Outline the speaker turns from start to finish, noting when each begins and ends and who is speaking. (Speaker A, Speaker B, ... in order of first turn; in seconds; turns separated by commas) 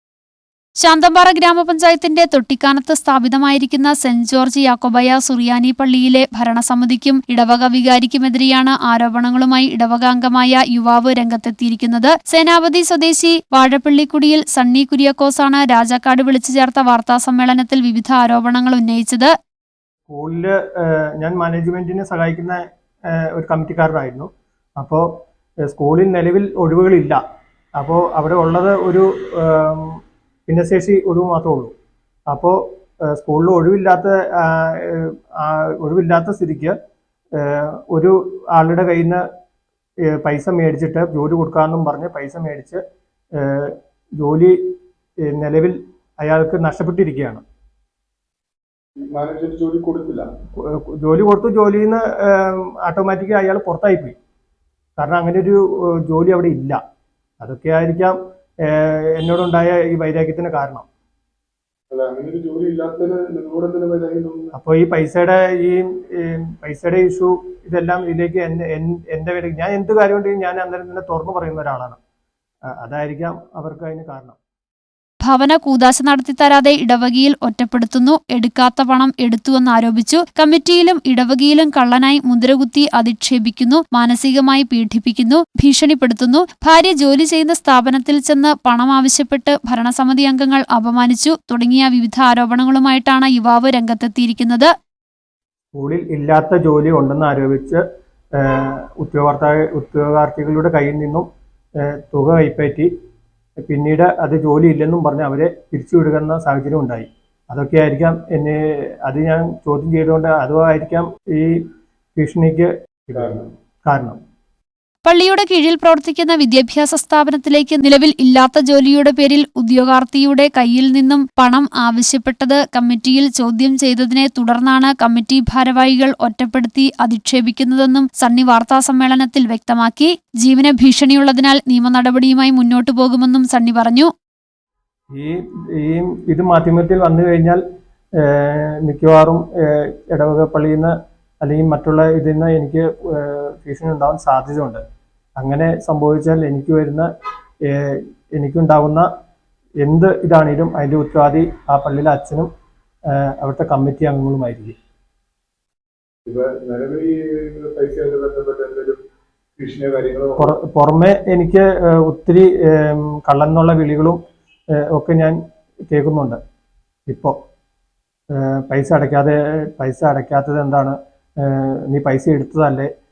Speaker A: 0.8-19.3, Speaker B: 20.1-25.1, Speaker B: 25.6-27.2, Speaker B: 27.8-31.7, Speaker B: 32.3-36.8, Speaker B: 37.4-39.2, Speaker B: 40.1-42.8, Speaker B: 43.4-44.6, Speaker B: 45.2-47.4, Speaker C: 49.0-50.3, Speaker B: 50.6-54.1, Speaker B: 55.0-56.8, Speaker B: 57.4-60.9, Speaker C: 61.9-64.5, Speaker B: 64.5-72.0, Speaker B: 72.8-74.4, Speaker A: 75.2-94.7, Speaker B: 95.8-97.8, Speaker B: 98.4-101.3, Speaker B: 101.8-102.9, Speaker B: 103.6-111.6, Speaker B: 112.2-114.2, Speaker C: 113.2-113.5, Speaker A: 115.0-134.1, Speaker B: 135.1-137.6, Speaker B: 138.2-144.8, Speaker B: 145.4-147.1, Speaker B: 147.7-149.1, Speaker B: 149.8-152.5, Speaker B: 153.1-154.8, Speaker C: 156.3-159.0, Speaker C: 159.6-160.5, Speaker B: 160.4-164.2, Speaker B: 164.8-165.4, Speaker B: 165.9-166.4, Speaker B: 167.1-167.3, Speaker B: 168.3-172.9